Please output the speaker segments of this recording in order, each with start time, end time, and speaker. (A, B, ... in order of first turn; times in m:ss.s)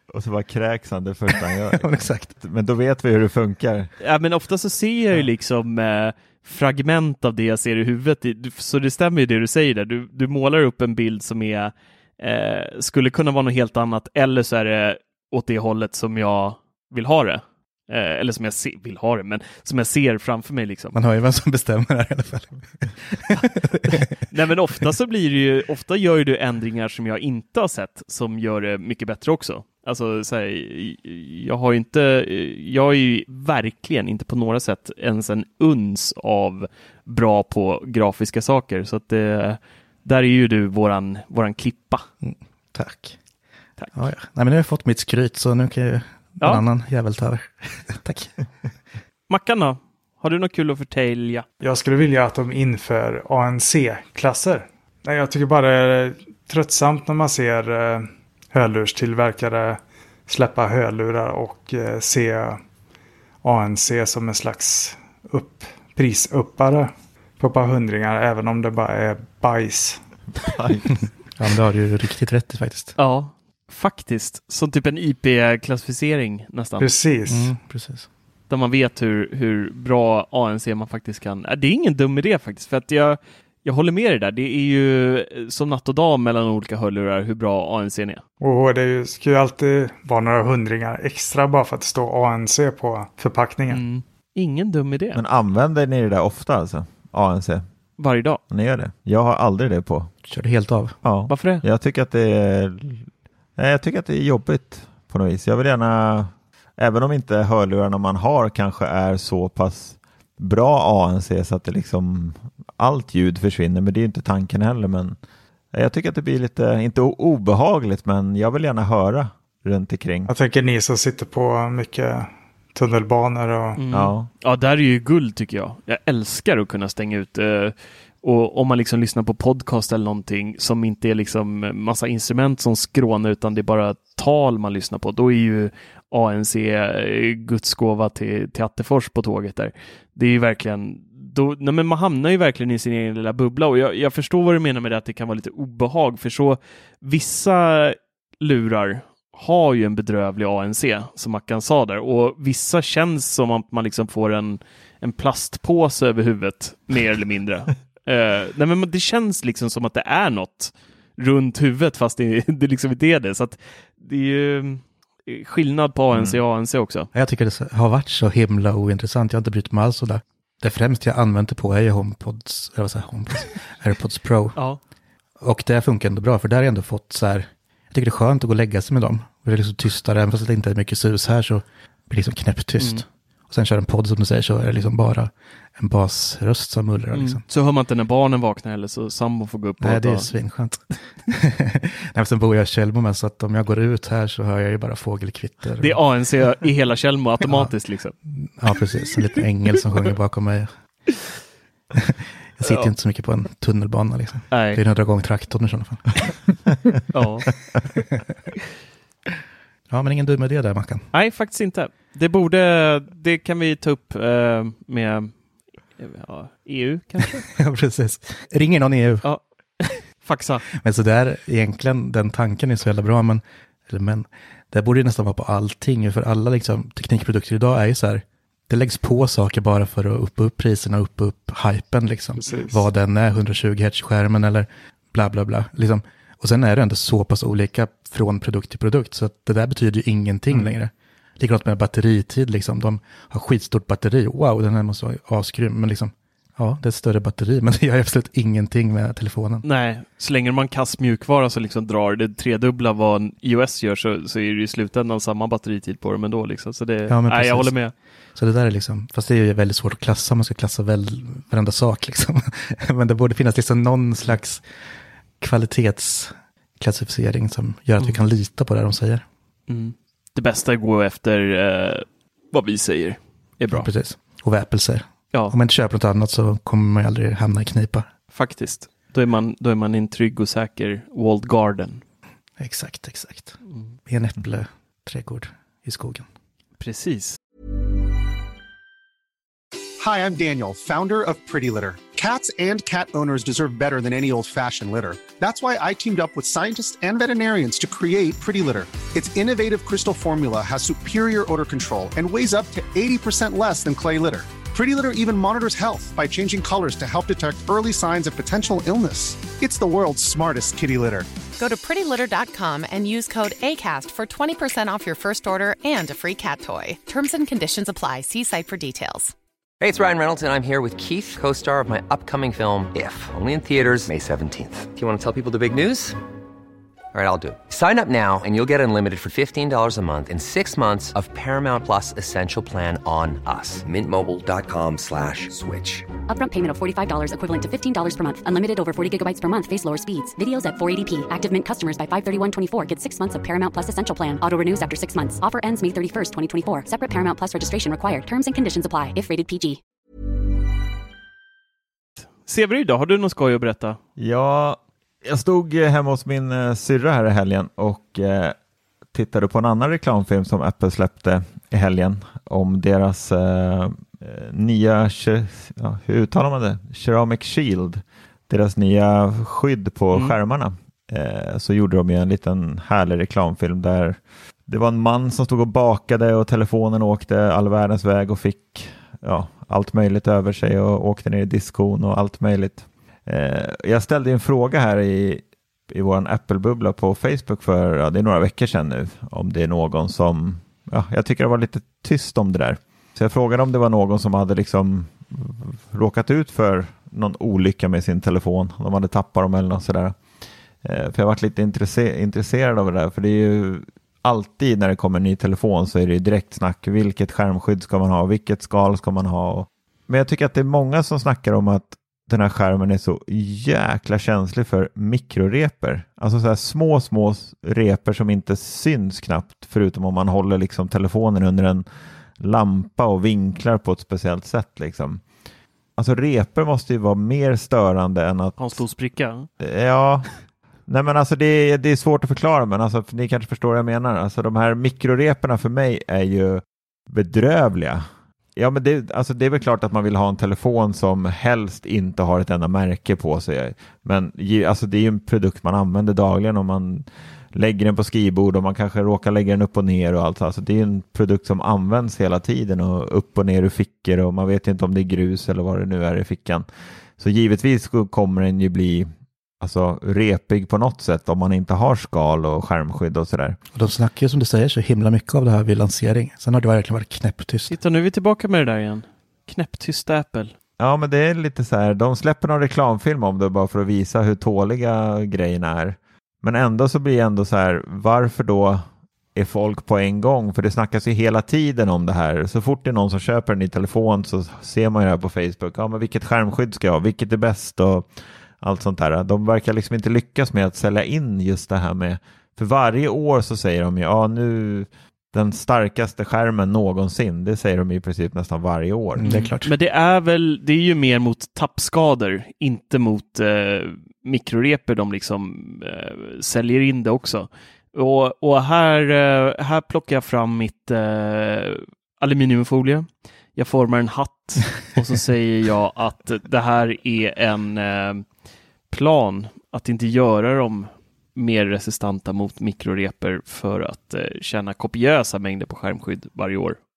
0:00.1-0:03.9 A
0:01.7-0:02.3 B
0:04.0-0:20.9 C
0:20.9-0:24.1 B
0:24.3-0:42.0 C
0:42.2-0:43.2 B
0:43.8-0:44.1 C
0:43.9-0:48.3 B
0:49.3-0:51.4 C
0:51.6-1:02.6 D
1:03.4-1:10.0 D
1:10.4-1:11.0 A
1:11.4-1:12.9 B
1:13.0-1:16.9 C
1:16.8-1:17.5 D
1:17.3-1:18.1 B
1:18.5-1:28.2 C
1:28.4-1:33.8 D
1:33.7-1:35.2 C
1:35.2-1:37.6 A
1:38.0-1:38.4 C
1:38.5-1:40.1 A
1:40.3-1:40.9 B
1:41.0-1:43.0 A
1:41.3-1:41.6 C
1:43.6-1:55.2 A
1:55.7-2:00.3 A
2:00.3-2:03.8 D
2:03.8-2:47.1 C
2:03.9-2:04.3 A
2:46.1-2:46.4 A
2:47.1-2:54.6 B
2:55.4-3:07.4 B
3:02.8-3:03.0 C
3:07.1-3:10.3 C
3:09.8-3:16.0 B
3:15.8-3:18.1 C
3:17.4-3:17.7 B
3:18.3-3:20.7 B
3:21.9-3:26.4 B
3:22.6-3:22.9 C
3:24.5-3:24.8 C
3:27.1-3:27.5 C
3:29.9-3:31.1 B
3:31.1-3:35.3 C
3:36.0-3:37.4 C
3:37.5-3:39.3 B
3:39.2-3:40.6 C
3:40.7-4:09.6 B
3:52.4-3:52.8 D
4:09.6-4:17.9 C
4:17.1-4:17.8 B
4:18.3-4:24.6 B
4:25.4-4:29.2 B
4:29.7-4:33.9 C
4:33.7-4:38.1 B
4:38.3-4:42.0 C
4:42.6-4:46.3 B
4:46.8-4:47.4 C
4:50.0-5:11.3 E
5:11.6-5:19.3 F
5:19.8-5:26.2 G
5:27.1-5:36.1 G
5:36.3-5:49.8 H
5:52.4-5:54.0 C
5:54.2-5:58.6 A
5:59.1-6:40.2 A
6:40.8-7:01.8 A
7:02.4-7:05.2 A
7:06.0-7:08.8 A
7:08.6-7:09.5 C
7:09.6-7:10.3 A
7:10.9-7:36.6 A
7:37.2-7:39.1 A
7:39.6-7:43.6 A
7:43.7-7:47.8 B
7:47.7-7:50.5 C
7:50.8-8:08.1 A
8:08.6-8:19.3 A
8:19.2-8:19.7 B
8:19.2-8:38.2 C
8:38.9-8:46.8 C